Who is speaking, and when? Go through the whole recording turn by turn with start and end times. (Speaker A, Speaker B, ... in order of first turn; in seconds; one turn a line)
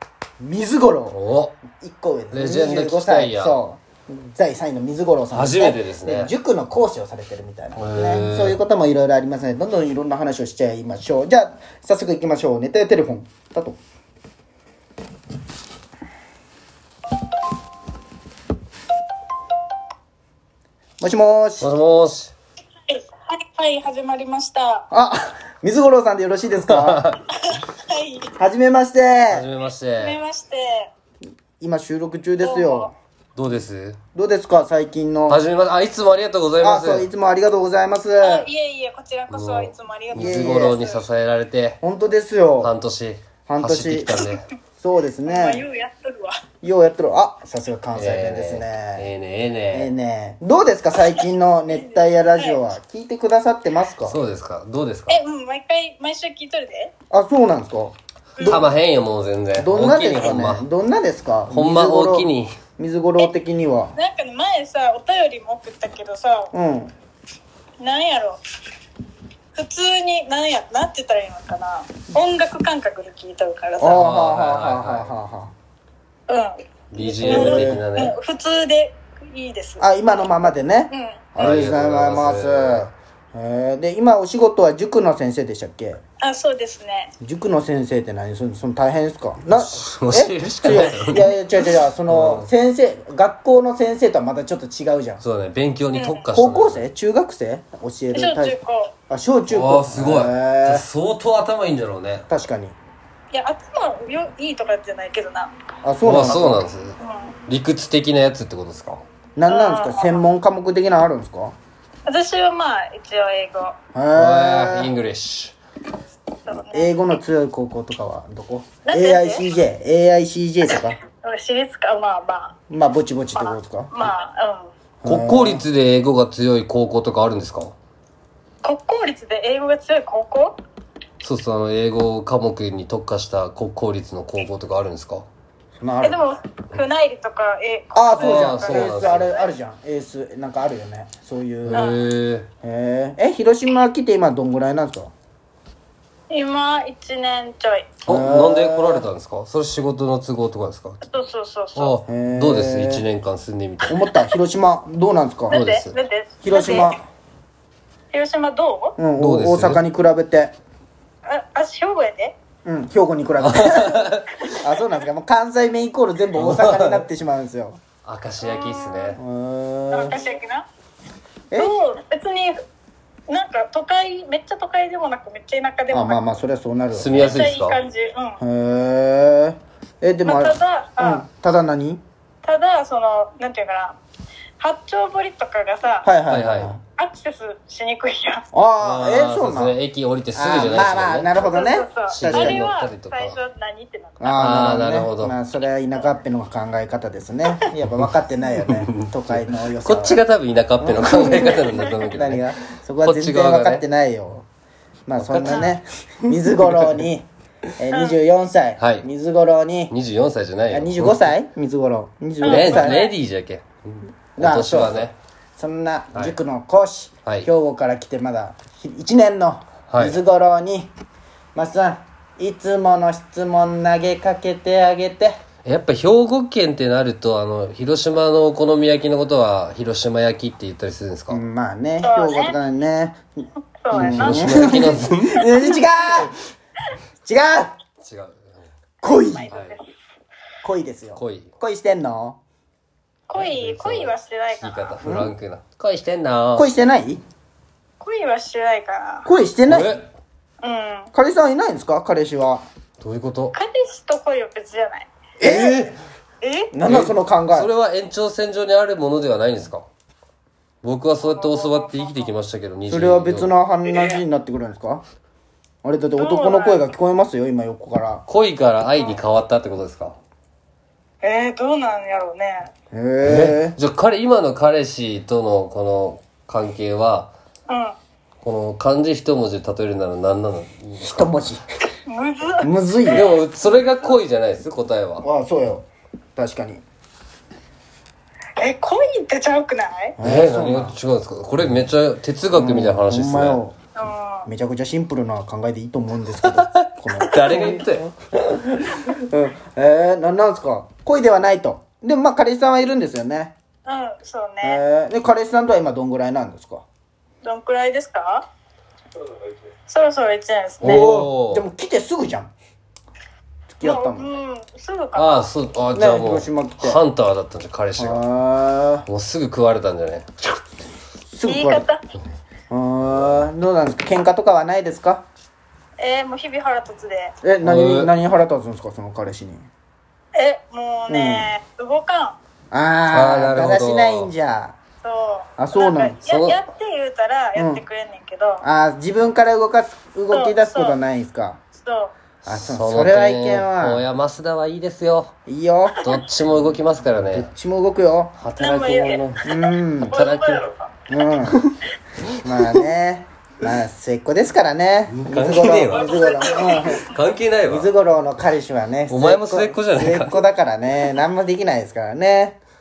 Speaker A: 0.4-1.2
Speaker B: 1.1-1.6
Speaker A: 1.8-13.8
Speaker B: 2.3-3.6
Speaker B: 5.3-6.3
Speaker B: 7.8-8.6
Speaker A: 21.0-21.7
Speaker B: 21.6-22.3
Speaker C: 22.9-24.9
Speaker A: 24.9-27.0
Speaker B: 26.7-27.2
Speaker C: 27.4-28.3
Speaker A: 28.4-29.5
Speaker B: 29.3-30.2
Speaker C: 30.0-30.9
Speaker A: 31.6-32.9
Speaker C: 32.4-32.9
Speaker B: 33.4-34.0
Speaker A: 34.1-35.4
Speaker B: 35.3-37.1
Speaker A: 36.6-38.5
Speaker C: 38.2-41.0
Speaker B: 39.3-41.8
Speaker A: 40.1-40.8
Speaker A: 41.8-42.7
Speaker B: 42.6-44.5
Speaker A: 43.5-44.2
Speaker A: 44.8-45.6
Speaker C: 45.2-46.4
Speaker A: 46.6-49.1
Speaker B: 48.0-49.9
Speaker A: 49.7-54.2
Speaker C: 51.2-52.6
Speaker B: 54.0-55.2
Speaker C: 55.1-56.9
Speaker A: 57.1-58.7
Speaker C: 58.4-58.6
Speaker B: 58.4-60.7
Speaker A: 59.6-64.0
Speaker B: 61.5-62.6
Speaker C: 63.9-66.5
Speaker A: 66.5-66.9
Speaker C: 67.8-68.4
Speaker C: 69.5-74.0
Speaker A: 73.8-75.5
Speaker B: 73.9-75.1
Speaker C: 76.3-79.8
Speaker B: 76.9-78.2
Speaker A: 77.2-77.8
Speaker A: 79.8-86.0
Speaker C: 80.9-81.2
Speaker B: 81.4-82.9
Speaker C: 86.2-87.1
Speaker A: 87.2-95.2
Speaker B: 89.5-91.3
Speaker B: 92.1-92.5
Speaker B: 95.2-96.8
Speaker C: 96.0-96.2
Speaker A: 96.3-98.6
Speaker C: 98.1-98.9
Speaker A: 99.1-100.9
Speaker B: 99.5-102.3
Speaker A: 102.3-102.8
Speaker C: 103.3-105.5
Speaker A: 105.8-106.6
Speaker B: 106.0-107.0
Speaker C: 107.0-107.3
Speaker B: 107.5-109.0
Speaker A: 109.4-111.5
Speaker C: 109.5-110.2
Speaker C: 112.1-113.8
Speaker A: 113.9-114.9
Speaker B: 114.2-115.6
Speaker C: 116.5-117.0
Speaker A: 116.7-121.0
Speaker C: 118.8-119.5
Speaker C: 121.1-122.6
Speaker A: 122.7-124.1
Speaker C: 123.3-124.7
Speaker A: 125.0-125.7
Speaker B: 125.0-127.7
Speaker C: 128.6-130.6
Speaker B: 131.2-135.3
Speaker A: 135.8-136.2
Speaker C: 136.0-139.5
Speaker A: 137.9-142.0
Speaker B: 138.2-139.4
Speaker B: 141.7-142.5
Speaker C: 141.7-142.1
Speaker A: 142.6-145.1
Speaker C: 146.3-148.0
Speaker B: 148.1-151.0
Speaker A: 148.1-149.1
Speaker C: 151.0-152.0
Speaker B: 151.8-153.9
Speaker A: 152.1-153.1
Speaker A: 153.9-155.6
Speaker C: 153.9-154.2
Speaker C: 155.5-157.0
Speaker B: 155.5-155.9
Speaker A: 156.4-157.0
Speaker C: 158.1-159.0
Speaker A: 159.0-160.5
Speaker B: 159.2-159.8
Speaker C: 161.3-162.4
Speaker A: 162.7-164.1
Speaker B: 163.4-164.5
Speaker A: 164.6-167.8
Speaker B: 166.4-167.0
Speaker B: 168.1-169.2
Speaker C: 168.4-169.2
Speaker A: 169.2-170.2
Speaker C: 169.9-170.7
Speaker C: 171.6-172.6
Speaker C: 173.3-176.3
Speaker A: 175.9-177.3
Speaker B: 176.9-177.8
Speaker C: 177.1-178.4
Speaker A: 178.4-182.0
Speaker C: 180.3-181.3
Speaker C: 182.4-184.0
Speaker C: 184.6-186.1
Speaker A: 186.0-186.8
Speaker B: 186.3-186.7
Speaker C: 187.0-188.4
Speaker A: 188.5-189.8
Speaker B: 188.8-191.6
Speaker A: 190.3-192.7
Speaker C: 191.5-194.4
Speaker B: 192.1-193.4
Speaker A: 194.2-200.2
Speaker B: 194.4-195.3
Speaker B: 198.7-202.4
Speaker A: 200.8-204.4
Speaker C: 201.3-201.8
Speaker B: 203.0-203.8
Speaker A: 205.1-207.3
Speaker B: 205.2-207.0
Speaker C: 205.4-205.7
Speaker A: 207.8-209.9
Speaker C: 207.9-208.2
Speaker B: 208.8-209.1
Speaker B: 209.9-211.3
Speaker A: 210.7-213.0
Speaker C: 212.4-213.2
Speaker B: 212.4-215.2
Speaker A: 214.4-220.9
Speaker B: 219.9-220.2
Speaker A: 221.6-225.4
Speaker B: 225.7-231.4
Speaker A: 231.3-233.2
Speaker C: 232.0-232.6
Speaker C: 233.8-235.0
Speaker B: 233.9-235.4
Speaker A: 233.9-236.3
Speaker A: 237.3-237.7
Speaker B: 238.0-238.6
Speaker C: 239.0-239.8
Speaker A: 239.0-239.5
Speaker B: 239.5-239.8
Speaker A: 240.6-242.4
Speaker B: 241.2-241.5
Speaker C: 243.3-245.0
Speaker B: 243.3-246.7
Speaker A: 245.0-245.3
Speaker A: 246.6-247.2
Speaker C: 248.0-249.3
Speaker A: 249.2-250.0
Speaker B: 249.7-250.1
Speaker C: 250.6-251.1
Speaker A: 251.1-252.6
Speaker B: 253.0-253.6
Speaker C: 253.5-255.1
Speaker A: 255.4-255.9
Speaker B: 255.4-256.0
Speaker C: 256.4-256.8
Speaker A: 256.7-257.7
Speaker B: 256.9-259.8
Speaker B: 260.8-263.5
Speaker C: 261.2-262.3
Speaker A: 262.9-265.0
Speaker A: 265.8-268.2
Speaker C: 266.2-266.9
Speaker B: 268.3-270.2
Speaker C: 271.2-272.7
Speaker A: 272.9-273.8
Speaker B: 273.2-277.3
Speaker C: 277.7-277.9
Speaker B: 278.4-281.3
Speaker A: 281.0-281.6
Speaker C: 282.1-283.3
Speaker A: 282.6-283.3
Speaker B: 283.1-285.2
Speaker A: 285.2-286.8
Speaker C: 288.6-290.2
Speaker A: 290.2-291.0
Speaker B: 290.2-293.6
Speaker A: 292.5-293.8
Speaker C: 294.0-294.5
Speaker A: 294.5-303.6
Speaker B: 296.5-298.1
Speaker C: 303.9-304.8
Speaker A: 304.6-306.9
Speaker C: 307.4-308.4
Speaker C: 309.9-311.1
Speaker A: 310.8-312.5
Speaker B: 310.8-311.7
Speaker A: 313.7-314.3
Speaker C: 313.8-315.5
Speaker B: 315.1-318.2
Speaker A: 315.9-317.0
Speaker A: 318.0-319.1
Speaker B: 319.1-320.6
Speaker A: 321.3-321.9
Speaker C: 321.4-322.0
Speaker A: 322.7-325.2
Speaker C: 326.0-327.4
Speaker A: 327.4-329.7
Speaker B: 327.6-328.1
Speaker C: 330.3-332.4
Speaker A: 331.1-331.5
Speaker A: 332.7-334.8
Speaker B: 333.1-334.3
Speaker C: 335.0-338.6
Speaker A: 335.6-336.2
Speaker B: 336.2-336.6
Speaker A: 337.6-337.8
Speaker A: 338.6-341.6
Speaker C: 340.3-341.0
Speaker C: 341.8-342.1
Speaker B: 342.4-345.3
Speaker A: 342.5-344.1
Speaker A: 345.5-346.1
Speaker B: 346.0-347.5
Speaker A: 347.3-348.4
Speaker B: 348.4-349.4
Speaker C: 348.6-350.9
Speaker A: 349.4-350.2
Speaker B: 350.1-350.6
Speaker A: 351.1-351.6
Speaker A: 352.4-357.0
Speaker B: 355.1-357.9
Speaker C: 355.7-357.0
Speaker A: 357.7-362.6
Speaker B: 359.1-360.4